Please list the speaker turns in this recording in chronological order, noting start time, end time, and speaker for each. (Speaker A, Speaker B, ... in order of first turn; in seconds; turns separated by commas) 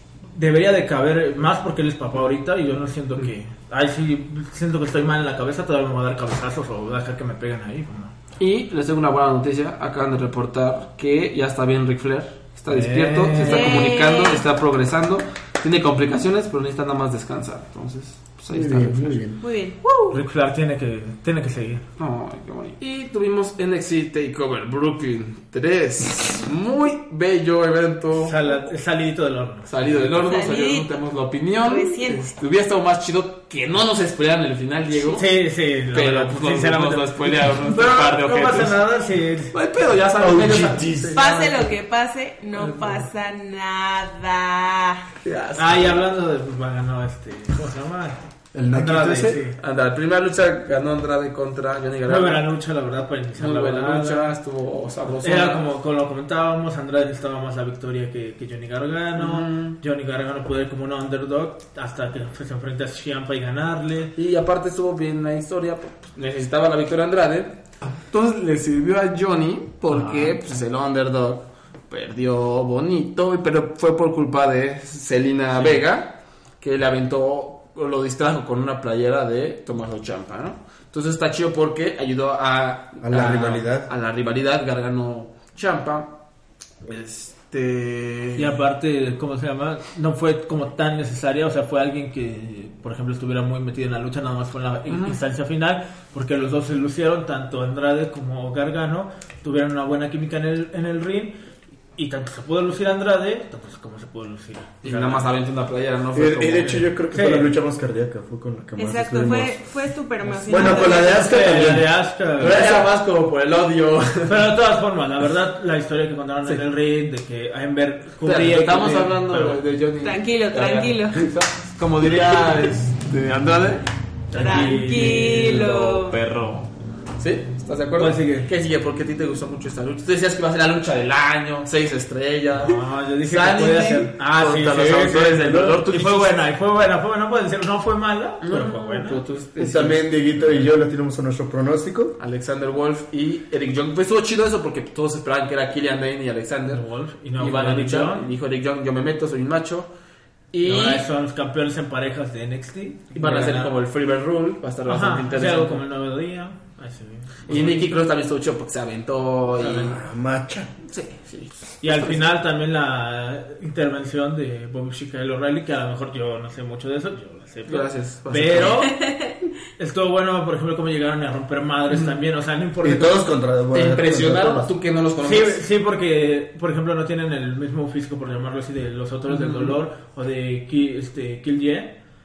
Speaker A: 0.3-8.1, Speaker B: 8.4-19.2, Speaker A: 12.7-14.0, Speaker C: 13.4-14.4, Speaker D: 18.5-19.4, Speaker C: 19.4-20.1, Speaker A: 20.1-21.8, Speaker B: 22.0-28.4, Speaker A: 28.2-30.1, Speaker B: 29.7-35.3, Speaker C: 30.3-30.9, Speaker C: 31.6-32.3, Speaker A: 35.1-39.5, Speaker B: 35.9-38.8, Speaker B: 39.5-41.6, Speaker D: 40.2-41.2, Speaker C: 41.1-45.0, Speaker B: 42.6-43.1, Speaker B: 45.2-46.0, Speaker A: 45.6-48.2, Speaker D: 48.5-49.4, Speaker A: 48.7-49.6, Speaker B: 49.2-52.5, Speaker A: 52.1-54.3, Speaker B: 53.4-55.7, Speaker A: 55.2-64.1, Speaker B: 59.1-59.8, Speaker B: 64.2-86.2, Speaker A: 69.9-70.4, Speaker A: 75.5-75.8, Speaker D: 83.0-83.9, Speaker B: 86.8-88.6, Speaker A: 88.4-101.3, Speaker B: 94.9-95.2, Speaker A: 102.0-105.3, Speaker B: 104.8-106.9, Speaker D: 106.1-109.6, Speaker A: 107.1-107.5, Speaker C: 108.8-111.5, Speaker D: 110.3-111.9, Speaker A: 110.5-112.9, Speaker B: 112.4-114.5, Speaker A: 114.3-119.6, Speaker B: 118.2-123.9, Speaker C: 120.0-121.2, Speaker A: 124.3-125.7, Speaker C: 124.3-126.2, Speaker B: 124.4-136.4, Speaker A: 128.0-128.5, Speaker A: 132.6-139.2, Speaker B: 138.4-140.6, Speaker D: 139.6-142.2, Speaker B: 142.2-146.8, Speaker A: 146.7-148.3, Speaker B: 147.4-149.9, Speaker B: 150.5-151.1, Speaker A: 150.6-153.7, Speaker B: 153.1-155.8, Speaker A: 154.8-157.9, Speaker B: 157.5-160.0, Speaker A: 159.6-160.0, Speaker D: 159.9-160.7, Speaker B: 160.8-162.2, Speaker A: 161.8-169.1, Speaker B: 167.7-168.8, Speaker C: 168.8-169.3, Speaker A: 169.8-173.3, Speaker D: 172.8-174.7, Speaker B: 173.7-175.6, Speaker A: 175.2-181.9, Speaker B: 179.3-179.8